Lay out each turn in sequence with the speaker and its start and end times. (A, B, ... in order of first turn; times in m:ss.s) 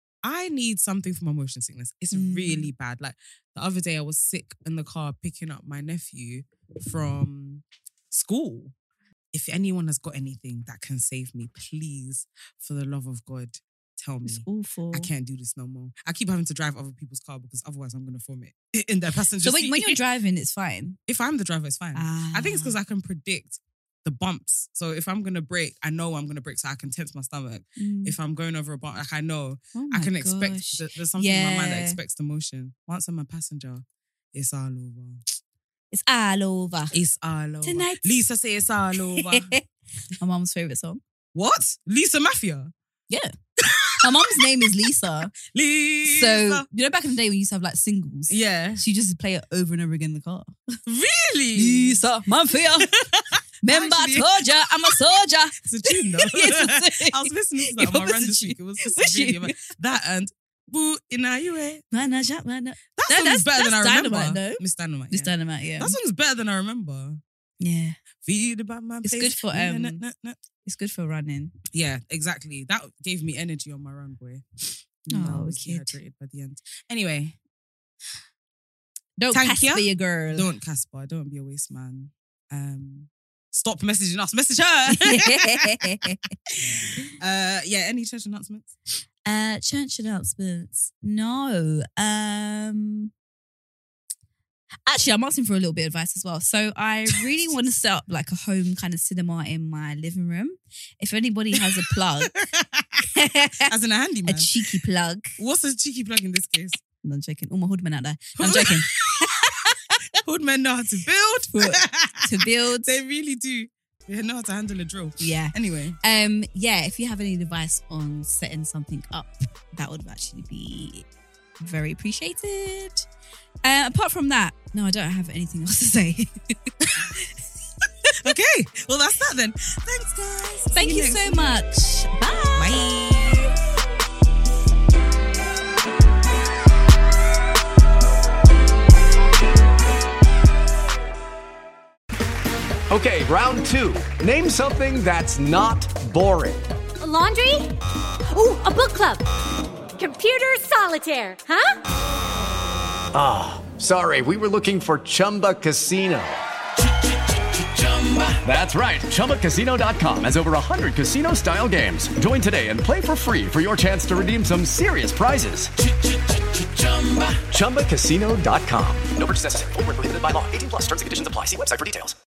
0:00.2-0:08.7 A
0:02.1-0:02.7 B
0:09.3-0:20.0 A
0:14.2-0:15.1 B
0:19.4-0:21.0 B
0:21.1-0:35.2 A
0:21.9-0:22.8 B
0:27.8-0:28.2 B
0:29.7-0:32.0 B
0:35.9-0:36.9 B
0:36.9-0:39.5 A
0:37.6-0:38.2 B
0:39.1-0:39.6 B
0:40.2-0:41.0 B
0:41.3-0:42.7 A
0:43.6-0:44.4 A
0:44.0-0:45.3 B
0:45.4-0:46.6 A
0:46.0-0:50.6 B
0:48.3-0:48.8 A
0:50.8-0:52.0 A
0:51.5-0:52.9 B
0:52.8-0:55.0 A
0:53.6-0:59.5 B
0:55.6-1:01.8 A
1:01.9-1:06.0 B
1:03.0-1:07.2 A
1:07.6-1:08.0 B
1:08.2-1:10.4 A
1:09.0-1:10.0 B
1:10.6-1:11.5 B
1:11.7-1:14.4 A
1:15.0-1:17.4 A
1:15.1-1:16.0 B
1:19.2-1:20.5 B
1:19.3-1:25.7 A
1:24.9-1:26.2 B
1:27.2-1:28.7 A
1:29.2-1:33.1 B
1:34.8-1:42.3 B
1:41.6-1:43.0 A
1:43.1-1:43.7 B
1:43.7-1:44.5 A
1:44.2-1:45.4 B
1:45.4-1:46.8 A
1:47.0-1:49.7 B
1:48.4-1:49.3 A
1:50.2-1:56.0 A
1:51.5-1:53.0 B
1:55.2-2:01.0 B
2:01.6-2:03.1 B
2:03.6-2:06.3 B
2:06.8-2:07.3 B
2:08.0-2:08.3 B
2:08.2-2:11.5 A
2:10.7-2:12.8 B
2:12.5-2:13.5 A
2:22.9-2:26.6 C
2:27.0-2:27.7 D
2:28.3-2:29.2 D
2:29.9-2:31.7 D
2:33.1-2:36.4 C
2:37.8-2:45.7 C
2:46.8-2:52.2 C